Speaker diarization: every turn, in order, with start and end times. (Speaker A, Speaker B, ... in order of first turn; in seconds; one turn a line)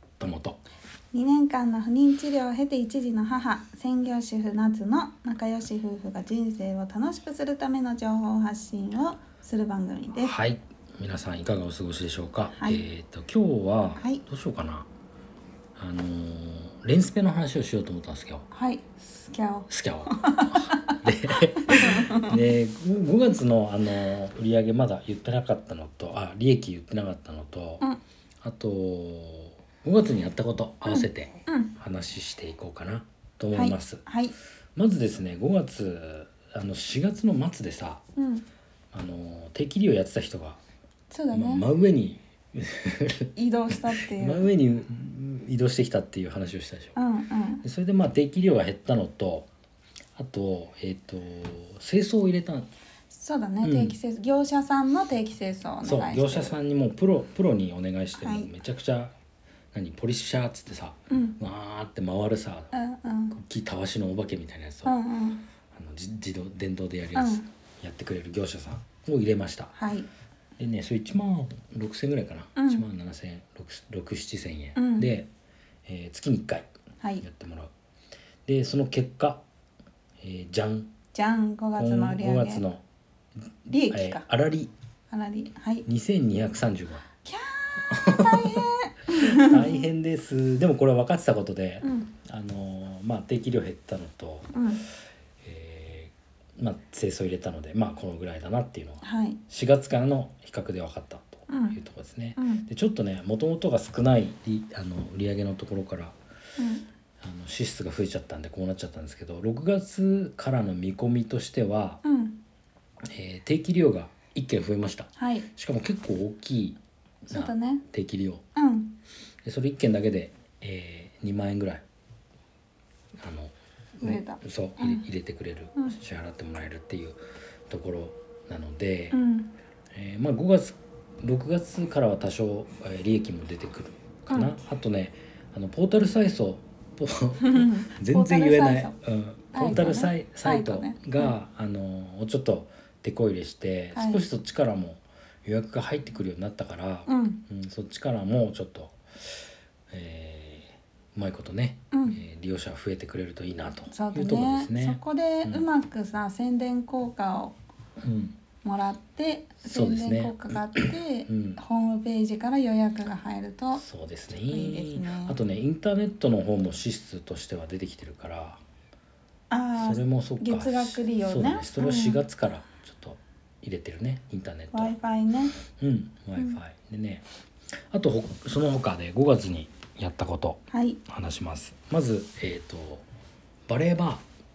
Speaker A: 0.2-0.6
Speaker B: 1.1-10.3
Speaker A: 10.2-14.9
Speaker B: 12.5-12.8
Speaker B: 14.0-14.2
Speaker A: 15.8-18.5
Speaker B: 18.5-21.0
Speaker A: 19.7-27.9
Speaker B: 21.6-22.4
Speaker A: 28.4-34.0
Speaker B: 30.9-31.7
Speaker B: 33.5-34.4
Speaker A: 34.8-38.0
Speaker B: 38.2-38.5
Speaker A: 38.9-40.6
Speaker B: 41.1-41.7
Speaker A: 41.3-47.0
Speaker B: 43.4-44.5
Speaker B: 47.0-47.6
Speaker A: 47.6-49.5
Speaker A: 50.2-52.7
Speaker B: 53.1-56.6
Speaker A: 53.6-54.0
Speaker A: 55.8-59.1
Speaker B: 58.2-58.5
Speaker A: 59.7-62.7
Speaker B: 61.1-61.4
Speaker B: 62.7-63.4
Speaker A: 63.3-65.0
Speaker B: 64.8-65.4
Speaker A: 65.7-69.8
Speaker B: 67.2-67.5
Speaker B: 69.8-70.1
Speaker A: 70.6-75.3
Speaker B: 72.6-72.8
Speaker B: 74.8-75.1
Speaker A: 75.9-76.7
Speaker A: 77.2-77.7
Speaker A: 78.5-79.4
Speaker A: 80.2-80.9
Speaker B: 81.1-82.7
Speaker A: 81.8-82.8
Speaker B: 83.7-84.2
Speaker A: 83.9-84.7
Speaker B: 85.1-85.9
Speaker A: 85.9-87.0
Speaker B: 87.2-89.8
Speaker A: 87.9-94.5
Speaker B: 91.8-92.1
Speaker B: 94.5-94.8
Speaker A: 95.4-106.2
Speaker B: 99.0-99.4
Speaker B: 101.5-101.8
Speaker B: 102.4-102.7
Speaker B: 106.6-106.9
Speaker A: 107.2-112.0
Speaker B: 112.0-112.4
Speaker A: 113.1-118.4
Speaker B: 115.2-115.5
Speaker B: 117.3-117.8
Speaker B: 118.5-119.0
Speaker A: 119.4-121.8
Speaker A: 123.2-127.2
Speaker B: 124.0-125.0
Speaker A: 127.7-129.2
Speaker B: 129.1-129.5
Speaker A: 129.9-149.3
Speaker B: 137.4-139.0
Speaker B: 139.5-141.3
Speaker B: 143.9-144.2
Speaker B: 147.1-147.4
Speaker A: 149.9-155.7
Speaker B: 151.9-152.2
Speaker B: 153.9-157.6
Speaker A: 158.0-158.4
Speaker B: 158.6-163.8
Speaker A: 159.6-161.6
Speaker A: 163.7-168.6
Speaker B: 164.4-165.4
Speaker B: 169.5-172.2
Speaker A: 169.8-174.9
Speaker B: 174.7-175.6
Speaker A: 175.7-177.3
Speaker A: 177.9-183.1
Speaker B: 180.7-181.0
Speaker A: 183.7-184.3